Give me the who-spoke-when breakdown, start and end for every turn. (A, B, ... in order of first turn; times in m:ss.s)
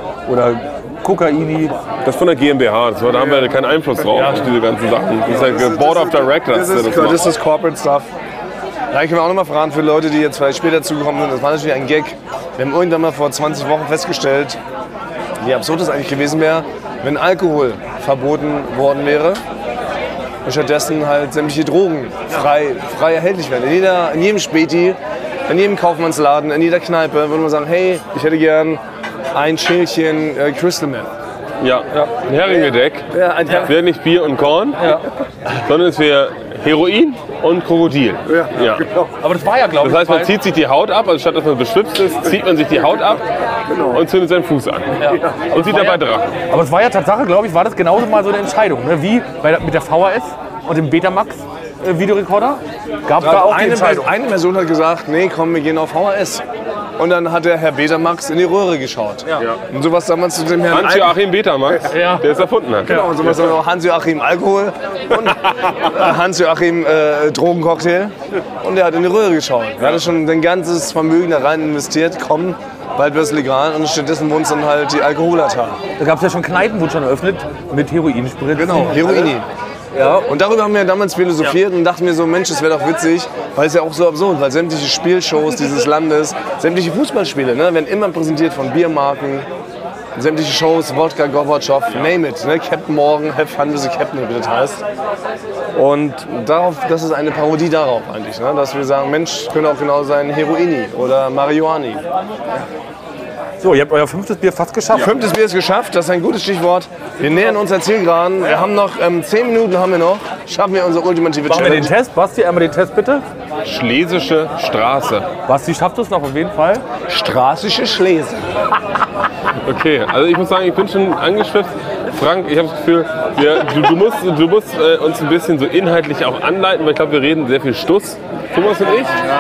0:00.3-0:01.8 A
0:02.0-0:07.2 B
0:04.1-0:04.5 C
0:05.2-0:08.1 C
0:08.9-0:14.6 C
0:15.4-0:19.4 C
0:20.4-0:28.8 C
0:29.3-0:31.1 C
0:31.6-0:35.0 B
0:33.1-0:33.8 C
0:34.8-0:35.1 A
0:35.5-0:38.9 B
0:38.3-0:38.5 C
0:39.2-0:40.3 A
0:39.8-0:43.3 B
0:43.7-0:44.0 C
0:43.8-0:46.4 B
0:45.0-0:46.0 A
0:46.5-0:54.1 A
0:53.2-0:56.4 C
0:57.0-1:01.2 C
1:00.7-1:03.1 B
1:01.9-1:02.2 A
1:02.8-1:15.8 C
1:16.0-1:19.3 A
1:18.6-1:19.5 C
1:19.9-1:20.3 A
1:20.3-1:29.5 C
1:30.2-1:34.8 C
1:35.8-1:42.0 C
1:43.6-1:45.1 A
1:44.9-1:51.9 C
1:51.5-1:53.2 A
1:53.6-1:55.3 B
1:55.5-1:56.8 A
1:57.1-1:58.5 C
1:59.6-2:09.2 B